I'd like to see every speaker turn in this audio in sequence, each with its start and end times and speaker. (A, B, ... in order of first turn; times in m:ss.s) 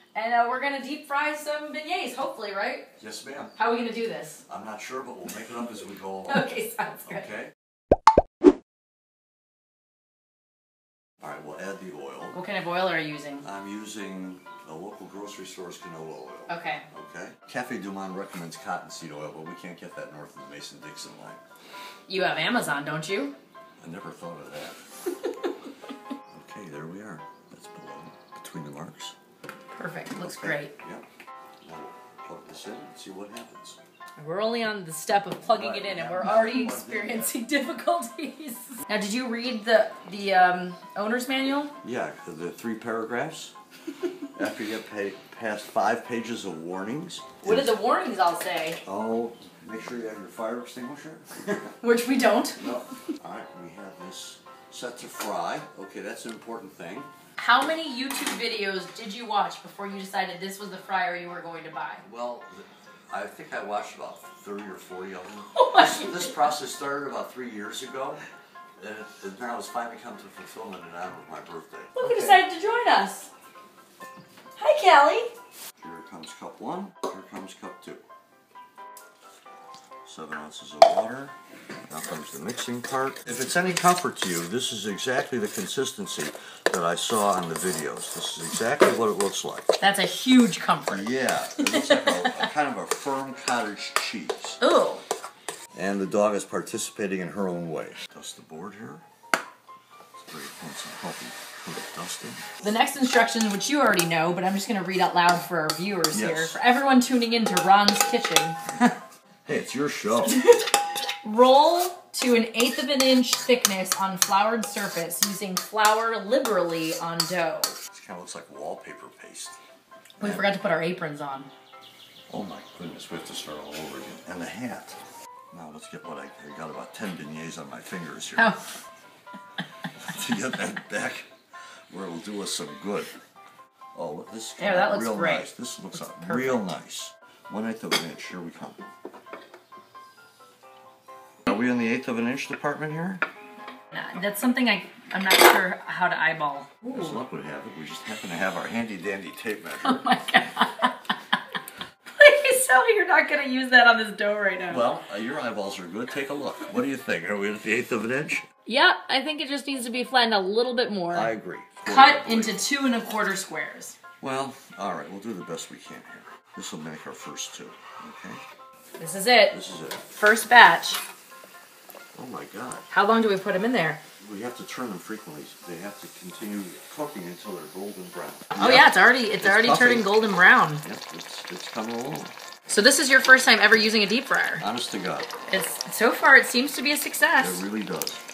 0:00.2-0:02.9 A
0:03.0-0:03.5 B
0:03.6-0:04.4 A
0:04.5-0:06.5 B
0:06.3-0:07.3 A
0:07.1-0:07.5 B
0:11.2-0:12.4 B
0:12.3-0:13.5 A
0:13.4-0:21.4 B
0:16.5-0:16.9 A
0:22.1-0:23.3 A
0:23.8-0:24.8 B
0:26.3-0:29.2 B
0:29.7-0:30.7 A
0:30.2-0:31.0 B
0:31.6-0:33.8 B
0:34.2-0:41.7 A
0:35.4-0:37.3 B
0:41.8-0:43.5 B
0:44.3-0:47.8 B
0:47.4-0:48.8 A
0:48.8-0:51.8 B
0:51.8-0:52.6 A
0:52.6-0:57.1 B
0:57.4-1:02.0 A
1:02.0-1:08.2 B
1:05.5-1:06.4 A
1:08.8-1:12.4 B
1:12.0-1:13.3 A
1:14.6-1:15.3 A
1:15.8-1:18.0 B
1:20.0-1:21.4 B
1:21.9-1:29.7 B
1:29.8-1:32.5 A
1:30.9-1:34.6 B
1:34.6-1:35.0 A
1:35.8-1:39.0 B
1:40.2-1:42.5 B
1:42.6-1:48.6 A
1:46.1-1:46.6 B
1:49.5-1:50.4 B
1:50.2-1:57.8 A
1:57.9-1:59.6 B
2:00.2-2:00.4 B
2:00.2-2:01.5 A
2:02.3-2:05.0 B
2:05.5-2:08.5 B
2:08.4-2:08.6 A
2:10.0-2:11.3 B
2:11.9-2:13.1 B
2:14.0-2:18.8 B
2:14.6-2:15.5 A
2:16.0-2:16.6 A
2:21.5-2:23.2 B
2:23.9-2:27.2 A
2:26.9-2:30.0 B
2:29.8-2:31.0 A
2:32.2-2:34.9 A
2:34.7-2:38.5 B
2:38.7-2:41.3 A
2:41.1-2:42.7 B
2:41.8-2:44.0 A
2:44.2-2:48.4 B
2:49.0-2:49.6 A
2:49.5-2:50.0 B
2:50.1-2:51.0 A
2:52.1-2:52.9 B
2:52.9-2:54.0 A
2:54.2-3:00.1 B
2:58.6-3:00.8 A
3:00.8-3:02.3 B
3:02.7-3:04.6 A
3:04.6-3:05.3 B
3:05.5-3:07.6 A
3:07.4-3:08.2 B